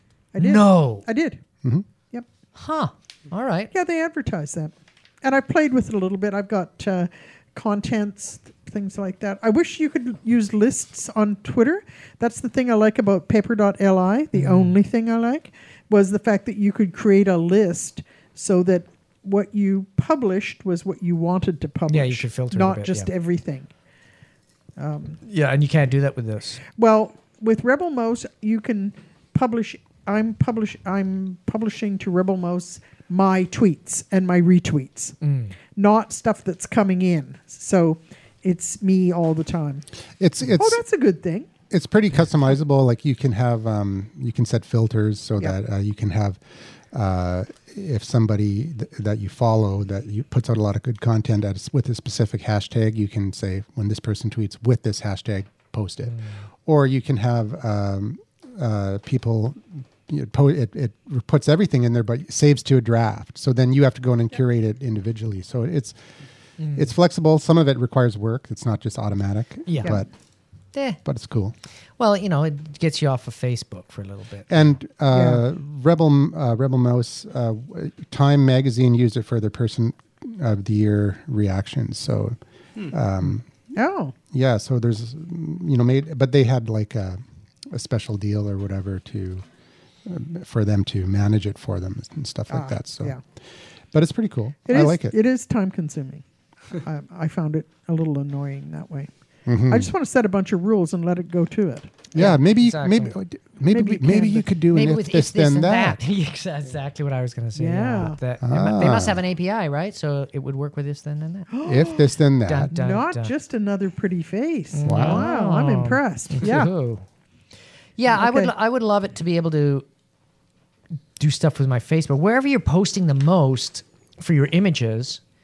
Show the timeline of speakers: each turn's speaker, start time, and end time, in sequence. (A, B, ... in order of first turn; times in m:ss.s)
0:00.3-0:01.4 A
0:00.4-0:01.1 B
0:02.6-0:03.7 B
0:03.7-0:23.7 A
0:14.3-0:14.8 B
0:21.9-0:23.1 B
0:24.8-0:25.2 A
0:25.3-0:26.6 B
0:26.8-0:35.2 A
0:35.2-0:35.5 B
0:35.7-0:39.9 A
0:40.2-0:40.8 C
0:40.5-0:41.5 A
0:41.7-0:46.4 C
0:46.9-1:06.0 C
0:56.1-0:56.3 B
1:06.6-1:06.9 B
1:06.8-1:10.1 C
1:09.7-1:10.0 B
1:10.7-1:11.0 B
1:11.0-1:11.5 C
1:12.0-1:14.6 B
1:14.5-1:22.4 C
1:15.1-1:15.4 A
1:22.9-1:23.5 C
1:23.7-1:24.1 A
1:24.3-1:29.4 C
1:30.0-1:33.2 C
1:32.5-1:33.2 A
1:33.9-1:35.1 C
1:34.6-1:36.2 A
1:36.8-1:39.1 A
1:39.5-1:39.9 C
1:39.6-1:42.1 A
1:42.1-1:43.2 B
1:42.1-1:46.0 C
1:43.7-1:44.5 A
1:44.7-1:51.5 B
1:47.6-1:48.2 A
1:48.4-1:49.2 C
1:51.5-1:52.1 A
1:51.6-1:52.7 C
1:52.4-1:53.3 B
1:52.7-1:56.7 A
1:54.7-1:57.0 B
1:54.8-1:55.3 C
1:58.0-1:59.9 B
1:58.1-1:58.5 A
2:01.2-2:05.2 B